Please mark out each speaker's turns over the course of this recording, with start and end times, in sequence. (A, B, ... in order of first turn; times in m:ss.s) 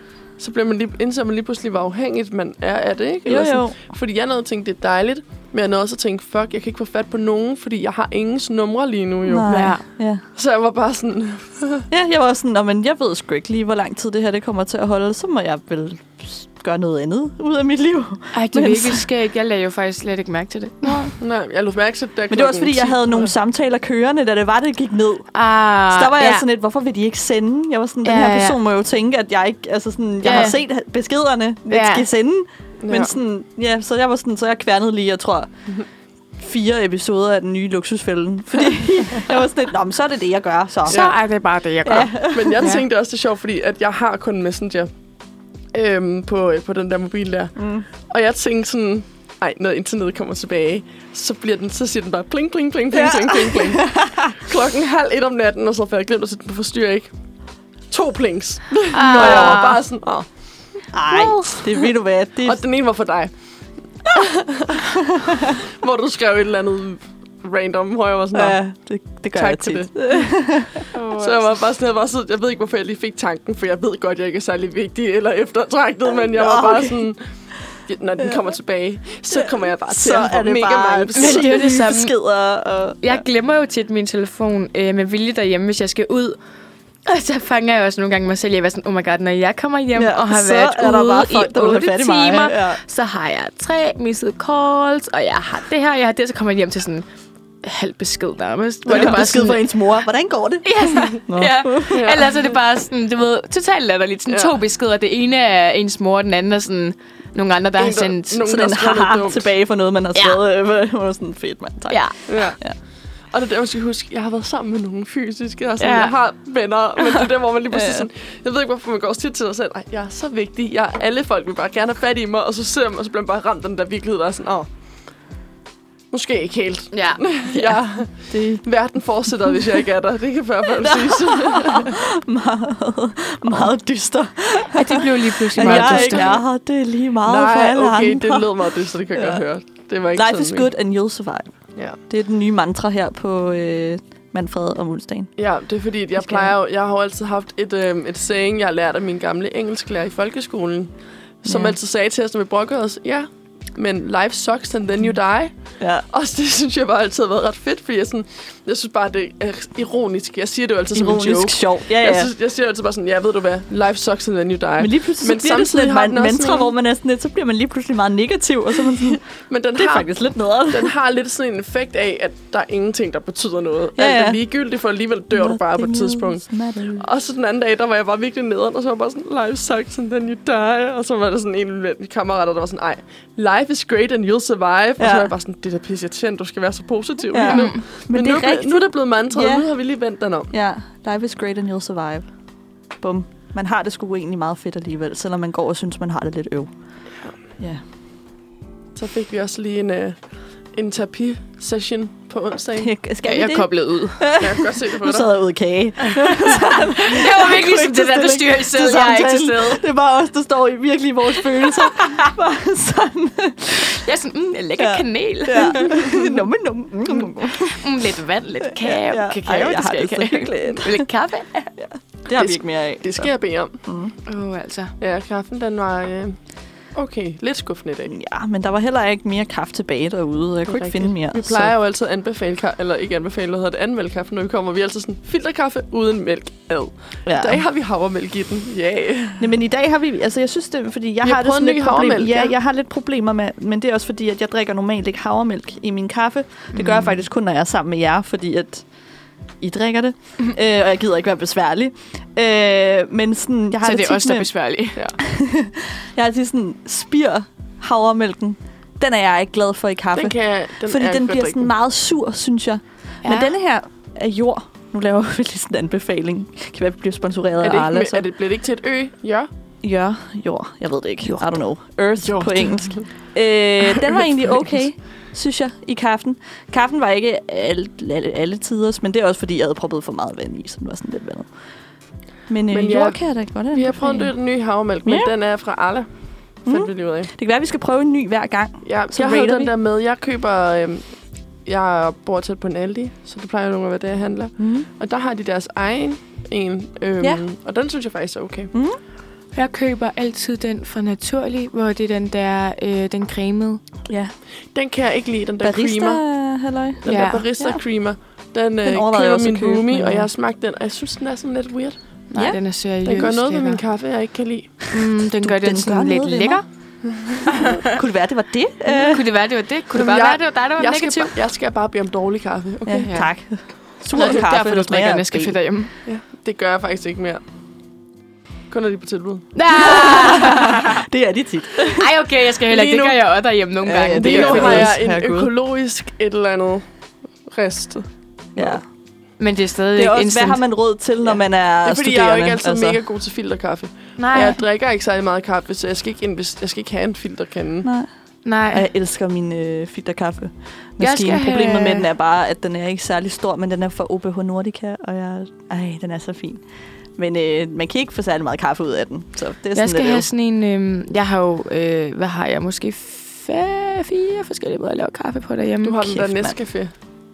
0:00.4-0:09.6 A
0:03.3-0:03.8 B
0:09.3-0:10.2 B
0:09.5-0:09.8 C
0:10.3-0:11.9 A
0:11.9-0:19.0 B
0:18.3-0:21.1 C
0:21.2-0:23.3 A
0:22.3-0:25.3 B
0:25.3-0:26.4 C
0:25.9-0:35.5 B
0:28.0-0:28.6 C
0:30.2-0:30.6 C
0:31.7-0:32.0 C
0:32.8-0:33.1 A
0:36.4-0:41.1 B
0:40.9-0:42.8 C
0:40.9-0:41.2 A
0:41.8-0:42.7 B
0:42.3-0:44.9 A
0:45.7-0:57.1 A
0:47.6-0:47.9 B
0:52.9-0:54.4 B
0:57.9-1:00.3 A
0:58.9-0:59.8 C
0:59.1-0:59.7 B
1:00.9-1:02.6 B
1:01.1-1:01.6 C
1:02.4-1:03.3 A
1:04.0-1:08.6 A
1:04.9-1:05.6 B
1:08.3-1:10.9 B
1:09.3-1:10.3 A
1:10.9-1:11.5 C
1:11.1-1:17.2 A
1:16.2-1:17.0 B
1:17.9-1:21.6 A
1:19.3-1:23.2 B
1:21.2-1:22.1 C
1:23.0-1:26.4 C
1:27.0-1:37.0 C
1:29.9-1:32.8 B
1:37.6-1:39.8 C
1:38.9-1:42.1 B
1:38.9-1:39.2 A
1:40.6-1:48.5 C
1:41.9-1:42.3 A
1:44.3-1:44.6 A
1:47.8-1:49.5 A
1:48.4-1:52.8 B
1:51.9-1:52.1 C
1:52.3-1:52.6 A
1:53.3-2:04.7 A
1:55.8-1:56.1 C
1:57.0-1:57.2 C
1:57.7-1:58.0 B
2:06.1-2:12.0 A
2:06.9-2:07.8 C
2:08.3-2:08.6 B
2:10.8-2:19.4 B
2:14.7-2:16.4 C
2:15.6-2:16.4 A
2:17.2-2:20.7 A
2:20.1-2:21.5 B
2:22.1-2:25.3 B
2:25.4-2:35.5 A
2:26.2-2:26.5 B
2:31.4-2:31.7 B
2:35.8-2:36.0 B
2:36.1-2:46.7 A
2:40.9-2:42.3 B
2:44.8-2:49.2 B
2:48.9-2:50.1 A
2:49.7-2:50.9 B
2:50.7-3:10.5 A
2:54.0-2:54.4 B
2:55.3-2:57.0 B
3:05.0-3:05.3 B
3:07.3-3:09.7 B
3:07.4-3:07.8 C
3:10.5-3:12.3 B
3:13.0-3:16.7 B
3:17.6-3:17.8 B
3:18.9-3:20.2 A
3:20.7-3:22.9 A
3:22.8-3:34.0 B
3:23.2-3:24.3 C
3:24.4-3:25.3 A
3:26.1-3:29.8 C
3:34.0-3:36.3 C
3:34.8-3:37.9 B
3:37.2-3:41.7 C
3:38.7-3:41.0 B
3:41.8-3:43.3 B
3:42.3-3:43.8 A
3:43.8-3:44.1 B
3:44.3-3:44.9 C
3:45.0-3:46.4 A
3:46.9-3:48.1 A
3:48.0-3:51.7 B
3:50.7-3:59.5 A
3:57.2-3:57.6 B
3:59.4-4:08.9 B
4:01.2-4:02.5 A
4:06.7-4:07.2 C
4:09.6-4:14.5 B
4:13.8-4:15.0 C
4:15.2-4:28.2 B
4:20.2-4:21.7 A
4:23.2-4:23.5 C
4:27.6-4:29.5 A
4:29.8-4:41.5 B
4:32.2-4:33.1 A
4:42.5-4:44.3 B
4:42.7-4:46.1 A
4:45.0-4:45.3 B
4:46.6-4:49.7 B
4:46.7-4:47.3 A
4:48.8-4:51.1 A
4:51.6-4:58.7 A
4:54.6-4:54.9 B
4:58.7-4:59.0 B
4:59.5-5:03.8 C
5:04.1-5:04.3 B
5:04.7-5:06.2 A
5:05.6-5:07.8 B
5:07.0-5:12.0 A
5:07.0-5:07.5 C
5:08.8-5:10.3 B
5:12.3-5:13.8 C
5:13.0-5:14.7 A
5:14.9-5:16.6 C
5:15.4-5:16.6 B
5:17.1-5:17.7 A
5:17.4-5:19.3 B
5:17.5-5:17.9 C
5:18.9-5:21.3 C
5:19.9-5:23.1 A
5:22.9-5:25.6 B
5:23.0-5:23.3 C
5:24.1-5:25.9 C
5:26.0-5:27.4 A
5:28.7-5:29.5 A
5:29.6-5:31.0 C
5:29.7-5:32.1 B
5:31.9-5:34.9 C
5:32.7-5:33.2 A
5:33.8-5:35.5 B
5:34.2-5:36.9 A
5:37.4-5:38.8 A
5:38.6-5:38.8 B
5:39.4-5:40.6 C
5:40.0-5:43.0 B
5:41.8-5:47.9 A
5:44.2-5:44.6 C
5:47.8-5:48.1 B
5:48.4-5:48.9 C
5:48.7-5:56.6 B
5:51.0-5:52.1 C
5:57.2-6:00.3 B
5:59.7-6:06.0 C
6:05.8-6:06.9 A
6:06.0-6:06.6 B